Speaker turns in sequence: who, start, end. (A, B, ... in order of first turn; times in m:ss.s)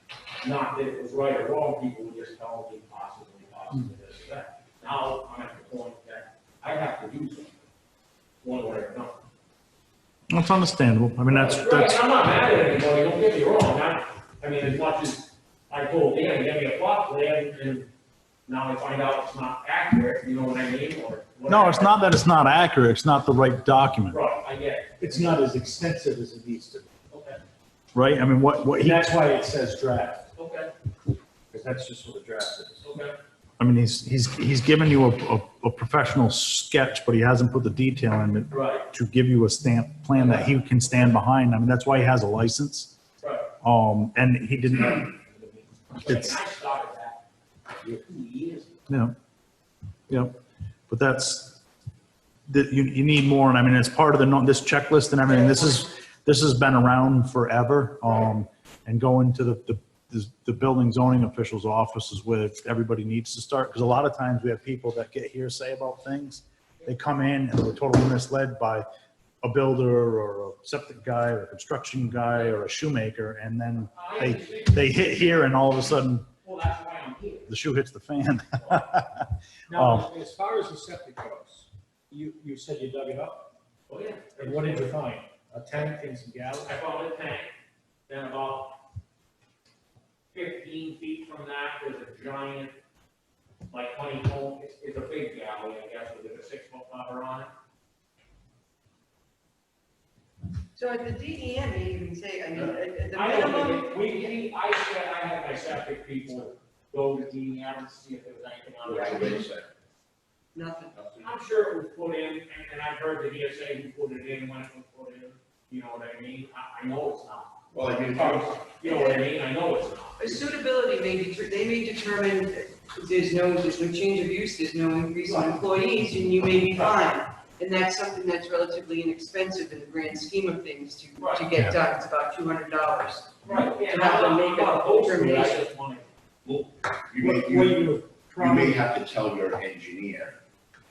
0:00.4-0:07.6 A
0:08.4-0:09.2 A
0:10.3-0:12.0 B
0:11.3-0:17.9 A
0:18.5-0:22.0 A
0:21.5-0:24.2 B
0:24.1-0:25.5 A
0:25.0-0:26.9 C
0:27.1-0:27.4 A
0:27.9-0:29.1 B
0:28.8-0:30.2 C
0:30.4-0:30.7 A
0:31.5-0:32.8 C
0:32.8-0:33.2 A
0:33.6-0:43.0 B
0:38.5-0:38.9 A
0:40.2-0:40.5 A
0:43.2-0:43.5 A
0:43.6-0:45.1 B
0:44.7-0:47.2 A
0:46.1-0:46.4 B
0:47.8-0:48.9 A
0:48.9-0:49.2 B
0:50.1-0:50.4 B
0:50.9-0:51.6 B
0:52.5-1:08.8 B
1:09.4-1:16.3 B
1:13.9-1:15.5 A
1:16.4-1:17.5 A
1:17.5-1:20.1 B
1:18.6-1:18.8 A
1:19.7-1:23.5 C
1:23.9-1:25.0 A
1:24.4-1:26.8 C
1:26.6-1:27.5 A
1:28.1-1:28.8 A
1:30.3-1:32.7 A
1:33.7-1:37.5 A
1:40.7-1:44.2 D
1:42.6-1:49.4 A
1:48.8-1:49.7 E
1:49.2-1:49.4 D
1:50.5-1:51.0 D
1:51.0-1:51.2 E
1:51.2-1:57.6 A
1:57.7-1:58.6 E
1:58.1-2:00.4 A
1:58.8-1:59.2 D
2:00.2-2:15.6 D
2:05.3-2:05.6 A
2:11.2-2:11.5 A
2:13.4-2:16.6 A
2:17.1-2:20.4 E
2:17.2-2:18.9 C